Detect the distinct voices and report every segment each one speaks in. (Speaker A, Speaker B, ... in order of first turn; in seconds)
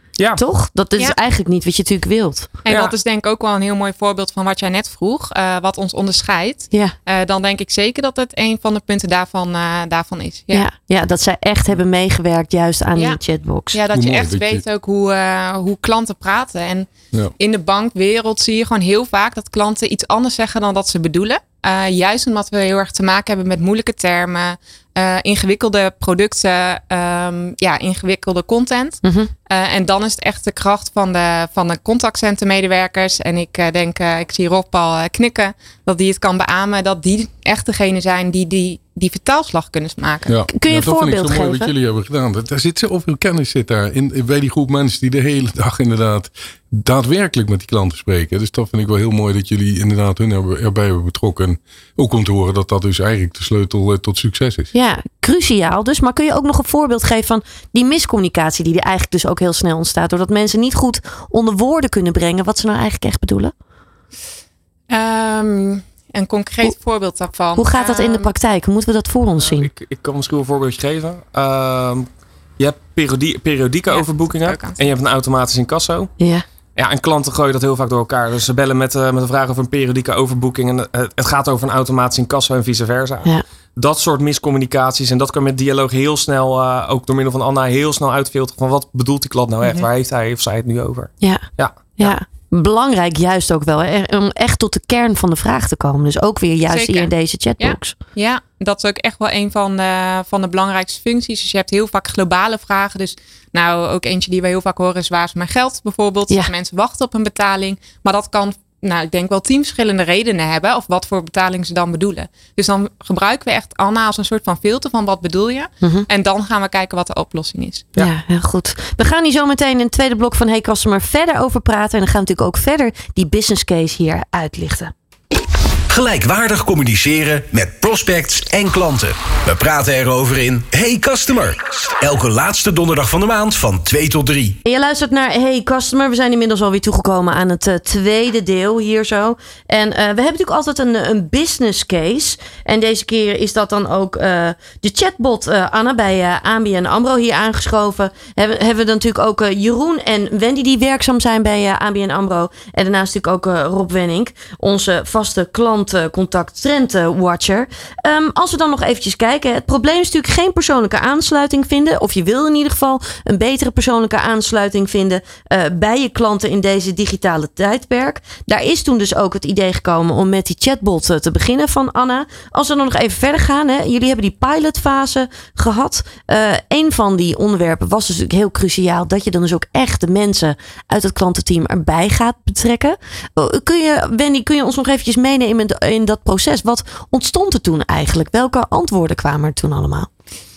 Speaker A: 0.3-2.5, 10.5-13.8, 29.0-29.3, 40.5-41.7, 54.7-63.5, 67.5-69.7, 76.2-76.4, 92.0-97.9, 118.0-124.9, 134.6-190.1
Speaker B: 2.6-10.7, 13.7-40.4, 64.9-68.3, 73.9-74.8, 96.7-117.9
Speaker C: 2.7-2.9, 69.5-72.1, 72.6-76.1, 76.8-92.2
Speaker D: 13.9-14.6, 40.3-54.7
Speaker E: 125.9-134.6